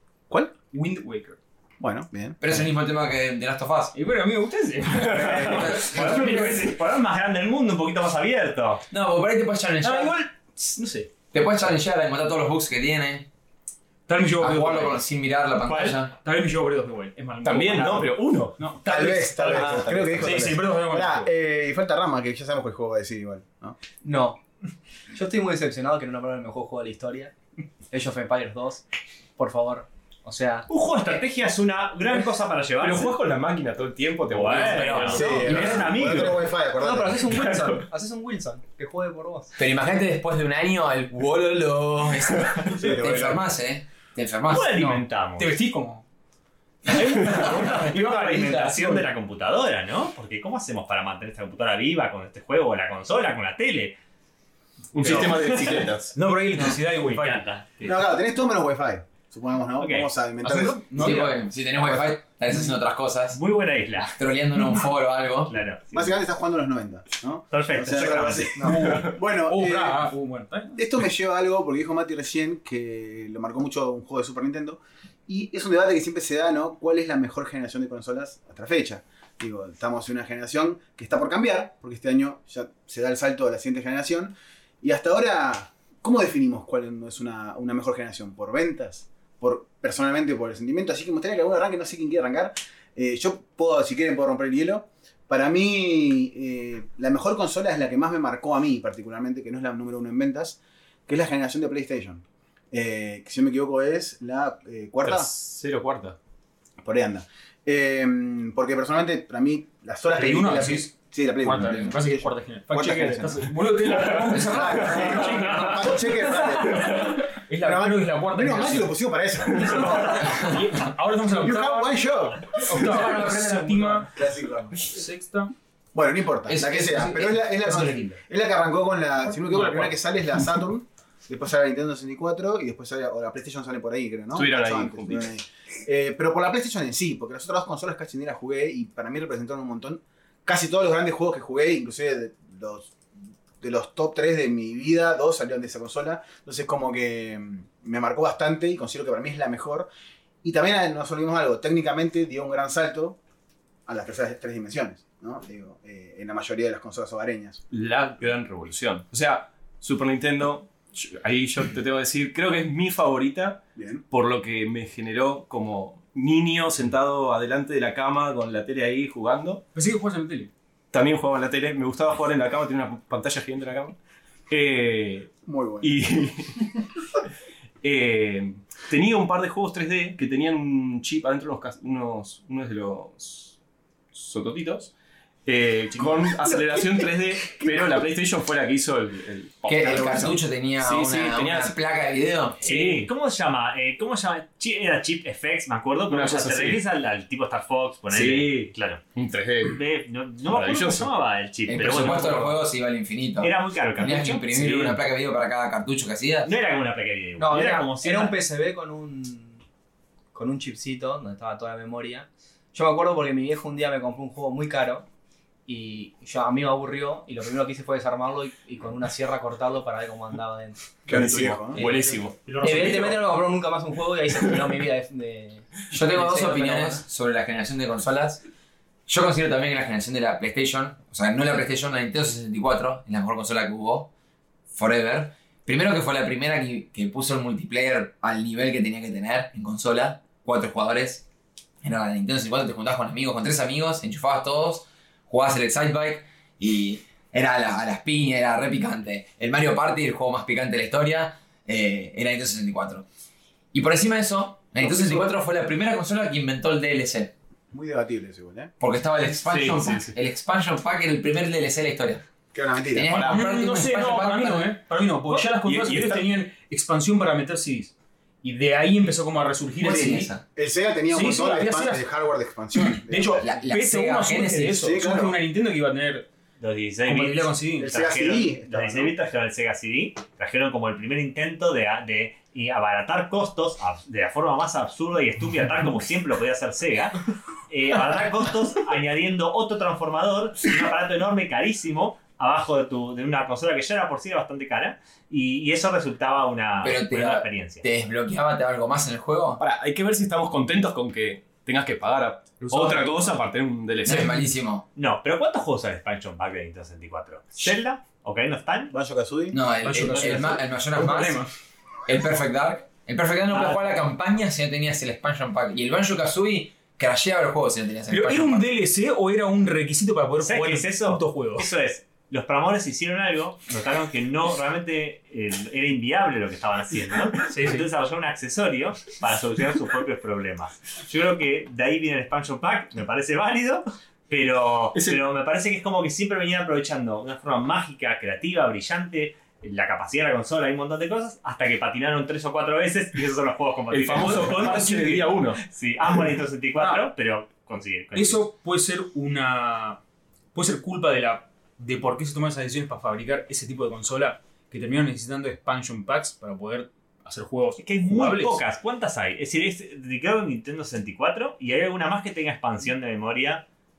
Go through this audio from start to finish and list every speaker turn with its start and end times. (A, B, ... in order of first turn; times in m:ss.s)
0:00.7-0:01.4 A
0:01.8-0:02.6 B
0:02.4-0:03.9 C
0:03.9-0:06.8 A
0:05.1-0:08.8 D
0:05.4-0:06.1 C
0:08.9-0:10.2 C
0:09.8-0:11.1 A
0:11.3-0:13.3 C
0:14.1-0:15.0 A
0:14.4-0:16.1 C
0:15.7-0:16.0 D
0:16.1-0:21.3 A
0:17.4-0:18.6 E
0:18.8-0:23.8 B
0:24.0-0:24.4 F
0:25.1-0:27.3 F
0:27.9-0:28.8 F
0:29.4-0:30.7 F
0:30.7-0:33.2 D
0:32.8-0:35.8 E
0:34.3-0:36.5 D
0:34.5-0:35.5 C
0:35.1-0:37.2 B
0:36.8-0:39.6 F
0:37.4-0:37.9 E
0:39.6-0:45.0 C
0:42.8-0:43.4 B
0:44.5-0:45.6 D
0:44.8-0:46.0 A
0:46.8-0:49.0 A
0:47.3-0:54.0 D
0:54.9-0:56.2 E
0:55.0-0:55.5 A
0:55.1-0:55.8 D
0:56.2-0:57.9 A
0:56.6-0:57.8 D
0:57.8-1:01.2 B
0:59.8-1:00.1 D
1:00.4-1:01.4 A
1:01.0-1:03.4 C
1:03.3-1:04.1 D
1:04.1-1:05.6 C
1:05.5-1:06.2 D
1:05.9-1:10.1 B
1:07.5-1:08.8 D
1:08.6-1:10.8 A
1:10.8-1:45.3 B
1:45.0-1:46.2 E
1:46.8-1:53.5 B
1:50.1-1:50.9 A
1:51.4-1:58.9 A
1:54.1-1:57.0 B
1:55.0-1:55.7 E
1:56.7-1:57.1 E
1:57.6-2:00.5 B
1:59.5-2:02.0 A
2:01.3-2:02.6 B
2:02.5-2:04.1 A
2:02.8-2:04.1 F
2:04.2-2:04.9 B
2:04.9-2:05.5 A
2:05.9-2:22.9 B
2:06.5-2:08.1 C
2:09.4-2:10.0 A
2:14.3-2:15.3 E
2:23.6-2:29.9 B
2:30.4-2:33.2 B
2:33.9-2:37.6 B
2:37.7-2:49.6 E
2:43.8-2:44.0 B
2:49.8-2:50.5 A
2:50.9-2:54.0 E
2:54.5-2:56.7 E
2:55.5-2:56.0 B
2:57.8-3:03.6 E
3:04.1-3:04.9 E
3:05.4-3:11.8 E
3:06.4-3:07.0 B
3:07.5-3:08.0 B
3:09.7-3:12.6 C
3:12.6-3:13.1 E
3:12.6-3:19.0 D
3:16.1-3:16.8 E
3:18.1-3:19.8 E
3:19.7-3:22.6 D
3:20.5-3:21.1 E
3:21.7-3:26.5 C
3:23.4-3:25.0 D
3:26.4-3:28.4 D
3:27.4-3:29.6 F
3:30.3-3:35.1 F
3:35.7-3:40.8 F
3:41.1-3:41.9 B
3:41.1-3:43.2 E
3:41.8-3:47.0 F
3:42.5-3:42.8 A
3:45.9-3:48.4 C
3:49.1-3:54.1 C
3:54.7-4:01.2 C
4:01.8-4:13.1 C
4:13.7-4:17.3 C
4:14.8-4:15.3 B
4:17.7-4:18.7 B
4:18.8-4:22.2 C
4:19.3-4:20.2 E
4:22.5-4:23.2 B
4:22.9-4:24.8 C
4:23.2-4:30.4 A
4:25.3-4:26.3 E
4:29.8-4:30.4 C
4:29.8-4:33.5 B
4:31.1-4:32.1 A
4:33.1-4:36.3 A
4:33.4-4:34.9 C
4:34.7-4:35.4 B
4:36.6-4:57.8 D
4:37.0-4:38.0 A
4:37.8-4:39.1 B
4:56.8-4:59.6 C
4:59.6-5:04.4 E
5:02.6-5:03.4 A
5:04.0-5:04.8 C
5:05.0-5:08.9 D
5:08.9-5:09.6 B
5:09.5-5:11.4 C
5:09.8-5:11.5 A
5:12.1-5:18.7 C
5:18.1-5:21.7 A
5:20.4-5:48.4 D
5:27.5-5:27.9 A
5:34.9-5:35.2 E
5:43.9-5:45.6 E
5:48.1-5:50.0 A
5:50.5-5:58.6 A
5:57.8-6:03.7 D